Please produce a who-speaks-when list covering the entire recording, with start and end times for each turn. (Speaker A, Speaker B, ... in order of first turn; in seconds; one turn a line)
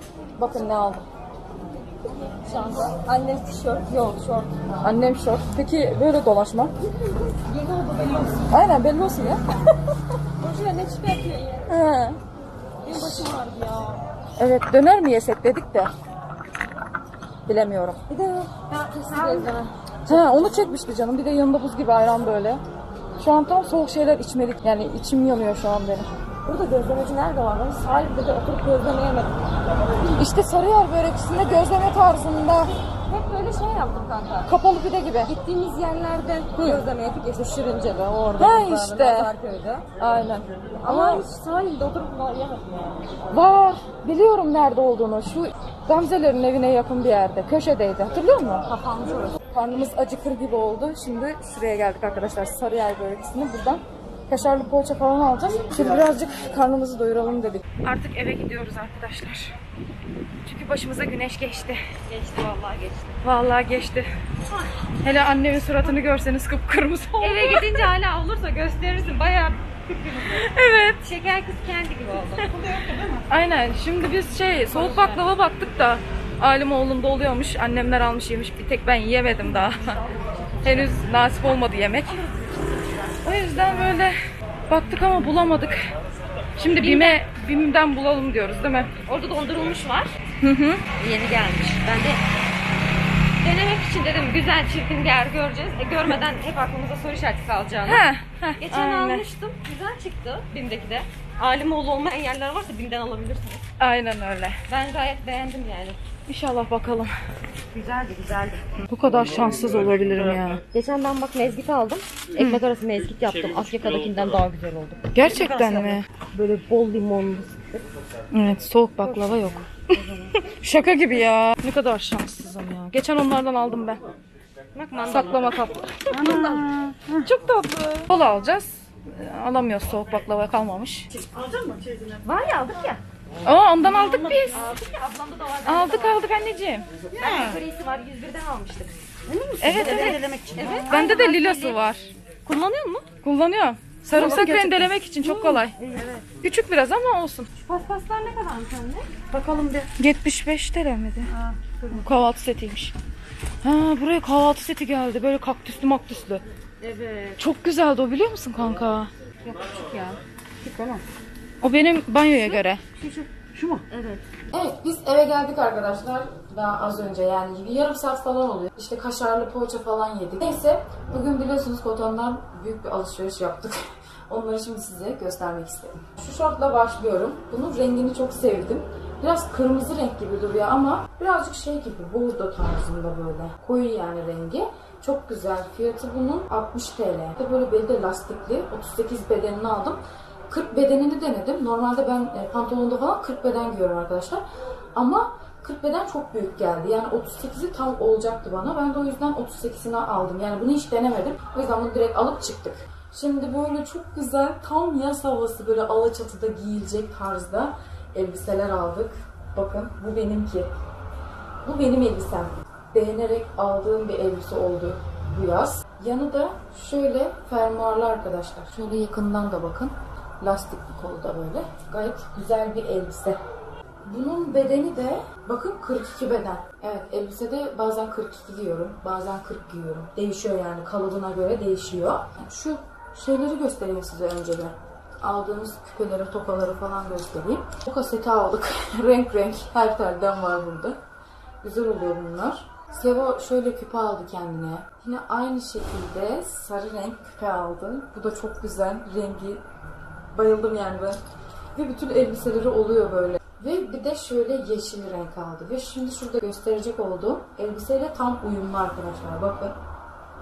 Speaker A: 0.4-1.1
Speaker B: 2.4-4.9
Speaker A: 4.8-6.7
Speaker B: 7.1-8.5
Speaker A: 8.5-9.5
Speaker B: 10.4-11.7
Speaker A: 11.7-12.2
Speaker B: 12.8-14.0
Speaker A: 14.4-15.9
Speaker A: 17.5-18.0
Speaker B: 18.1-20.8
Speaker C: 19.1-19.5
Speaker A: 20.1-22.6
Speaker A: 23.2-26.1
Speaker B: 26.4-29.4
Speaker A: 30.0-32.7
Speaker B: 33.1-34.5
Speaker A: 34.5-35.3
Speaker B: 35.2-39.9
Speaker A: 36.5-36.8
Speaker A: 38.4-39.3
Speaker A: 40.0-41.2
Speaker B: 40.8-43.0
Speaker A: 43.3-48.6
Speaker B: 48.7-49.4
Speaker A: 49.5-59.5
Speaker A: 60.4-61.8
Speaker B: 62.0-63.2
Speaker A: 63.2-64.1
Speaker A: 65.0-67.9
Speaker B: 67.2-70.4
Speaker A: 70.3-71.0
Speaker B: 71.0-72.9
Speaker C: 72.7-73.2
Speaker A: 73.3-80.0
Speaker B: 74.7-75.2
Speaker B: 79.8-80.8
Speaker A: 80.6-82.2
Speaker A: 83.2-84.2
Speaker A: 84.7-85.8
Speaker A: 86.6-88.9
Speaker B: 86.7-87.2
Speaker B: 89.0-90.1
Speaker A: 90.4-90.8
Speaker B: 91.0-92.2
Speaker B: 93.4-98.0
Speaker A: 97.8-99.2
Speaker B: 98.6-103.6
Speaker A: 103.8-104.6
Speaker B: 104.7-106.0
Speaker A: 106.3-107.1
Speaker B: 107.7-108.7
Speaker A: 108.9-110.6
Speaker B: 110.7-117.8
Speaker A: 112.4-112.6
Speaker A: 115.1-116.5
Speaker A: 118.3-124.0
Speaker B: 119.0-120.3
Speaker B: 124.7-126.7
Speaker A: 125.1-126.7
Speaker C: 126.1-127.3
Speaker A: 127.2-131.1
Speaker C: 131.1-132.3
Speaker B: 132.2-133.0
Speaker A: 133.4-134.7
Speaker C: 133.9-134.4
Speaker B: 134.4-136.2
Speaker A: 135.7-136.9
Speaker B: 137.1-141.8
Speaker C: 137.2-137.6
Speaker A: 139.6-140.2
Speaker C: 139.6-140.9
Speaker A: 140.9-142.1
Speaker B: 142.4-143.1
Speaker A: 143.2-145.8
Speaker B: 144.1-146.3
Speaker A: 146.4-147.5
Speaker B: 147.6-149.8
Speaker A: 149.7-151.3
Speaker B: 151.3-152.0
Speaker A: 151.9-152.9
Speaker A: 153.6-156.4
Speaker B: 156.8-157.4
Speaker A: 157.4-159.1
Speaker B: 159.4-160.2
Speaker A: 160.6-161.0
Speaker A: 161.6-162.8
Speaker B: 162.4-164.2
Speaker A: 164.5-194.4
Speaker A: 194.9-210.7
Speaker A: 211.6-223.4
Speaker A: 224.0-241.0
Speaker A: 241.6-249.6
Speaker A: 250.3-251.2
Speaker A: 251.7-259.8